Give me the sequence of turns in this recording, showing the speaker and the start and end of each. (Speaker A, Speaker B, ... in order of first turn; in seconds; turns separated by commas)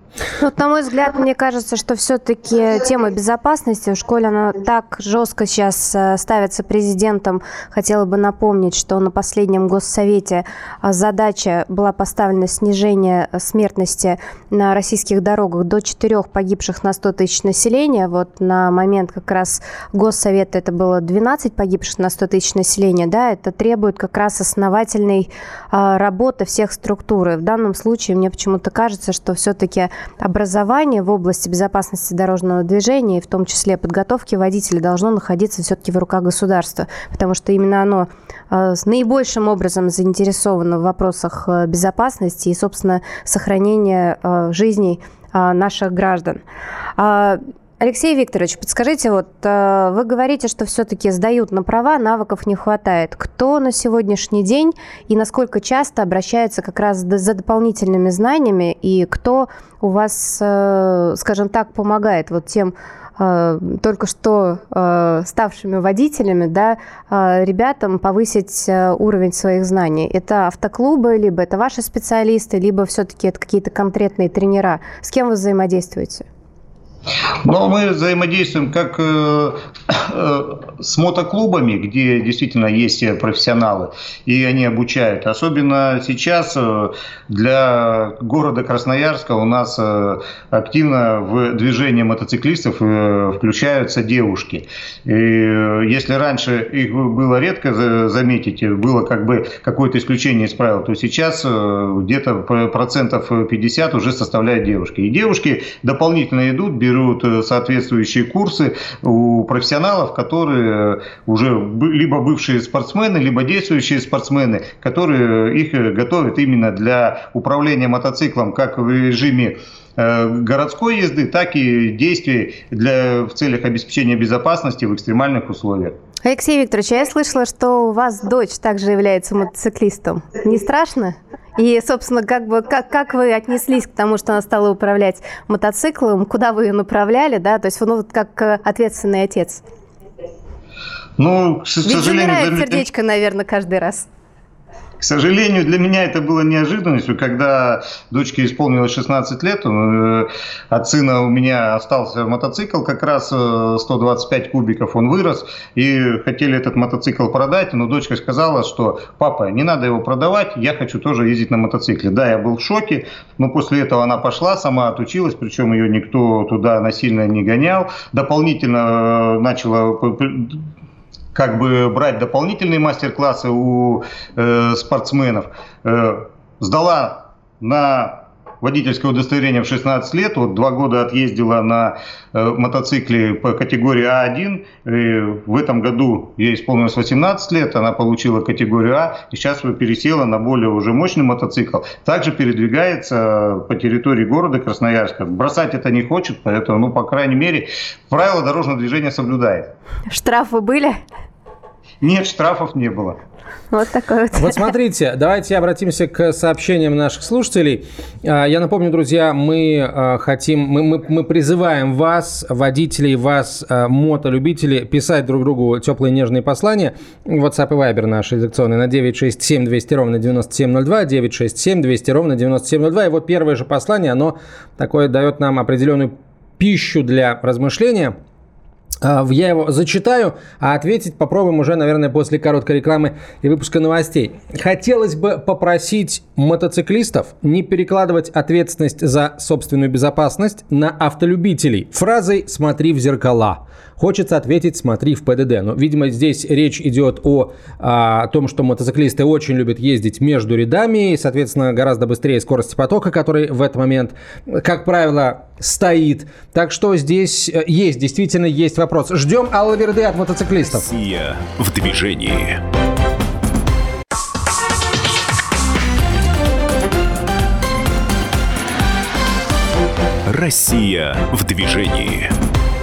Speaker A: 0.4-46.4, Speaker A: 47.0-76.2, Speaker B: 77.4-125.9, Speaker A: 126.2-139.6, Speaker B: 141.2-142.8, Speaker A: 141.8-144.1, Speaker B: 145.0-170.6, Speaker B: 171.3-199.7, Speaker A: 200.1-201.0, Speaker B: 202.0-203.2, Speaker A: 203.7-204.6, Speaker C: 204.3-228.1, Speaker C: 229.0-260.9, Speaker D: 260.6-262.6, Speaker D: 270.3-272.3